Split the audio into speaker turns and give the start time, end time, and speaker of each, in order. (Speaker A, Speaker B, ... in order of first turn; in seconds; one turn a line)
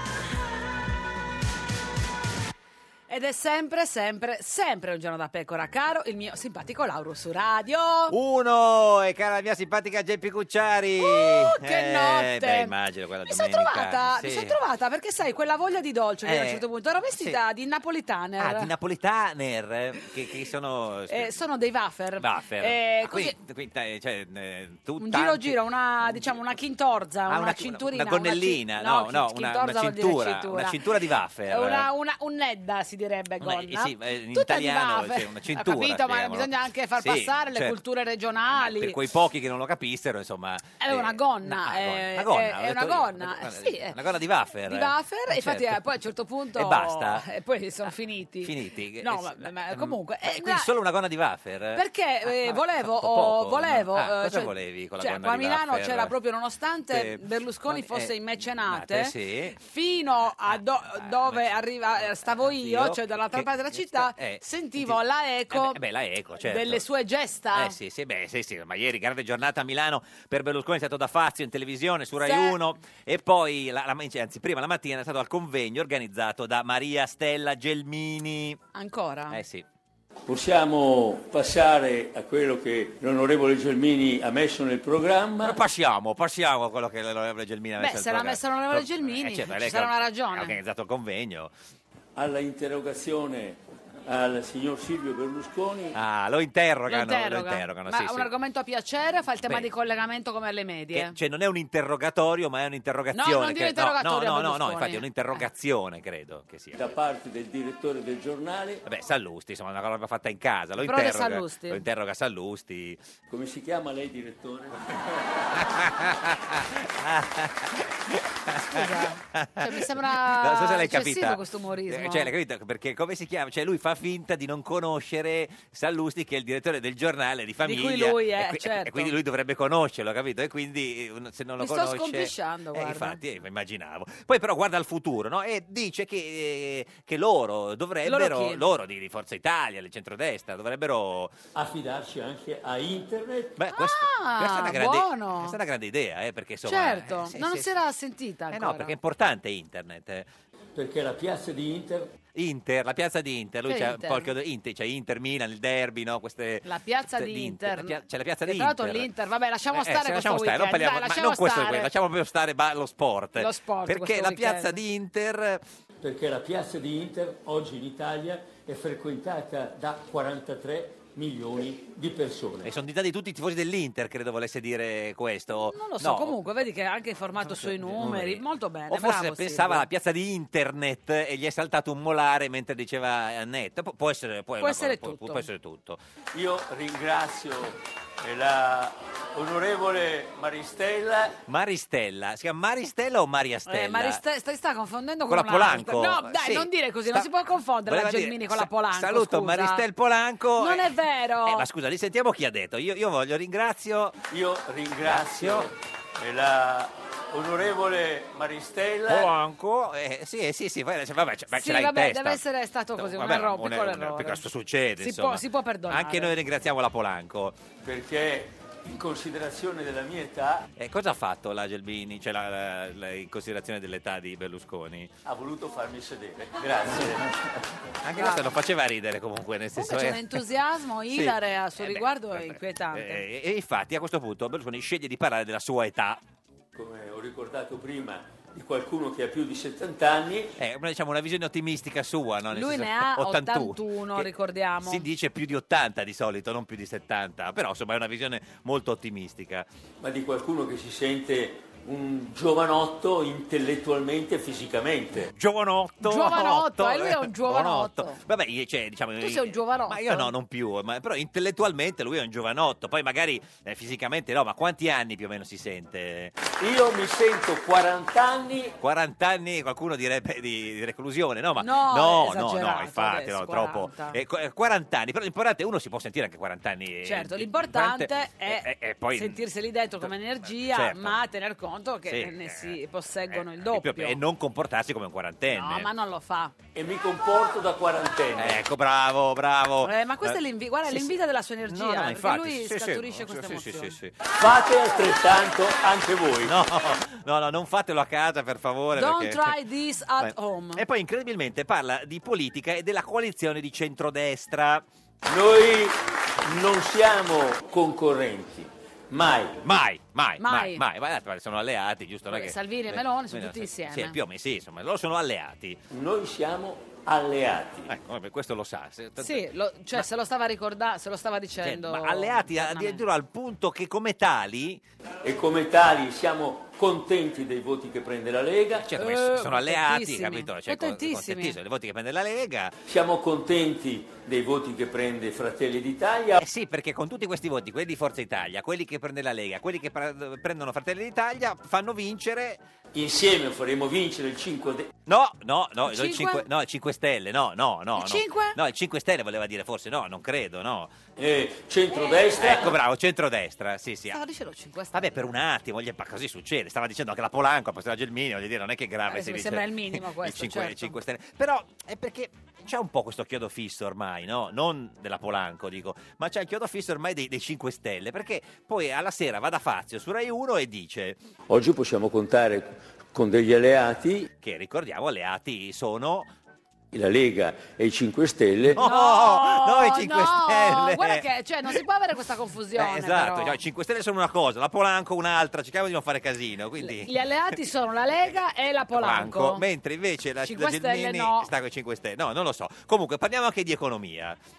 Speaker A: 3.1-8.2
Speaker B: 8.1-14.6
Speaker A: 11.0-12.7
Speaker A: 13.2-18.7
Speaker B: 16.3-17.4
Speaker B: 18.4-21.3
Speaker A: 21.1-23.4
Speaker B: 22.2-26.3
Speaker A: 25.0-30.8
Speaker B: 27.3-31.9
Speaker A: 31.5-39.0
Speaker B: 33.4-37.8
Speaker B: 38.5-45.8
Speaker A: 40.8-44.0
Speaker A: 44.7-50.7
Speaker B: 46.5-47.2
Speaker B: 48.4-56.1
Speaker A: 51.8-65.8
Speaker B: 56.9-59.6
Speaker B: 61.0-61.5
Speaker B: 62.5-65.0
Speaker B: 65.5-66.8
Speaker A: 66.4-67.8
Speaker B: 67.5-78.6
Speaker A: 72.2-72.6
Speaker A: 78.7-79.4
Speaker B: 79.3-79.7
Speaker C: 80.3-85.6
Speaker B: 85.4-91.5
Speaker A: 87.8-90.6
Speaker C: 92.2-96.0
Speaker B: 96.0-98.3
Speaker A: 96.9-101.2
Speaker B: 100.9-106.8
Speaker A: 103.1-105.4
Speaker C: 106.8-108.8
Speaker B: 108.8-113.0
Speaker A: 110.8-111.9
Speaker C: 113.3-115.0
Speaker B: 115.6-141.3
Speaker A: 118.6-122.3
Speaker A: 127.6-129.2
Speaker A: 131.6-133.2
Speaker A: 138.1-138.6
Speaker C: 141.6-143.6
Speaker B: 143.6-147.7
Speaker A: 143.7-145.6
Speaker A: 146.7-148.9
Speaker B: 148.5-150.3
Speaker C: 150.8-152.2
Speaker B: 152.3-159.1
Speaker A: 153.7-154.3
Speaker A: 156.7-161.9
Speaker B: 159.7-165.6
Speaker A: 163.4-164.8
Speaker C: 166.0-172.7
Speaker B: 172.6-176.4
Speaker A: 175.7-179.9
Speaker B: 177.4-186.0
Speaker A: 184.6-185.5
Speaker C: 186.3-191.4
Speaker B: 191.5-194.2
Speaker A: 193.7-199.8
Speaker B: 195.3-197.3
Speaker B: 197.9-204.2
Speaker A: 200.6-201.7
Speaker C: 204.3-209.3
Speaker B: 205.0-205.7
Speaker B: 209.1-212.4
Speaker A: 211.5-214.4
Speaker B: 213.0-217.6
Speaker A: 215.0-216.3
Speaker C: 217.8-220.7
Speaker B: 220.8-225.1
Speaker C: 225.2-227.3
Speaker B: 228.0-230.4
Speaker A: 228.2-228.5
Speaker A: 229.8-233.2
Speaker B: 231.1-236.2
Speaker C: 236.8-240.5
Speaker B: 240.6-244.3
Speaker A: 242.5-245.1
Speaker B: 244.8-249.7
Speaker C: 250.0-255.3
Speaker B: 255.3-266.4
Speaker A: 256.0-258.2
Speaker A: 259.2-260.3
Speaker C: 266.5-268.8
Speaker B: 268.8-279.4
Speaker A: 271.6-274.2
Speaker A: 277.0-284.2
Speaker B: 280.0-281.2
Speaker B: 282.1-282.8
Speaker B: 283.3-285.9
Speaker A: 285.5-286.5
Speaker C: 286.8-288.6
Speaker B: 288.4-290.4
Speaker A: 289.8-294.0
Speaker B: 291.7-294.2
Speaker C: 294.3-296.5
Speaker B: 296.4-299.6
Speaker A: 298.9-300.8
Speaker B: 300.2-304.8
Speaker C: 305.2-309.6
Speaker B: 309.6-315.8
Speaker A: 310.4-310.8
Speaker A: 312.3-314.2
Speaker C: 315.9-317.9
Speaker B: 317.9-320.1
Speaker A: 319.2-323.0
Speaker B: 321.6-324.8
Speaker C: 325.2-328.9
Speaker B: 328.8-332.8
Speaker A: 329.0-331.6
Speaker C: 332.9-336.4
Speaker B: 336.4-342.6
Speaker C: 342.9-344.9
Speaker B: 345.1-351.0
Speaker A: 345.9-346.4
Speaker A: 347.9-348.6
Speaker C: 351.2-352.8
Speaker B: 352.4-354.2
Speaker A: 354.1-355.3
Speaker B: 354.9-371.2
Speaker A: 359.1-360.9
Speaker C: 371.5-374.3
Speaker B: 374.4-376.3
Speaker C: 376.9-378.8
Speaker B: 378.7-381.3
Speaker A: 378.8-383.6
Speaker B: 382.7-387.1
Speaker A: 386.8-389.6
Speaker B: 388.9-394.4
Speaker A: 390.4-391.5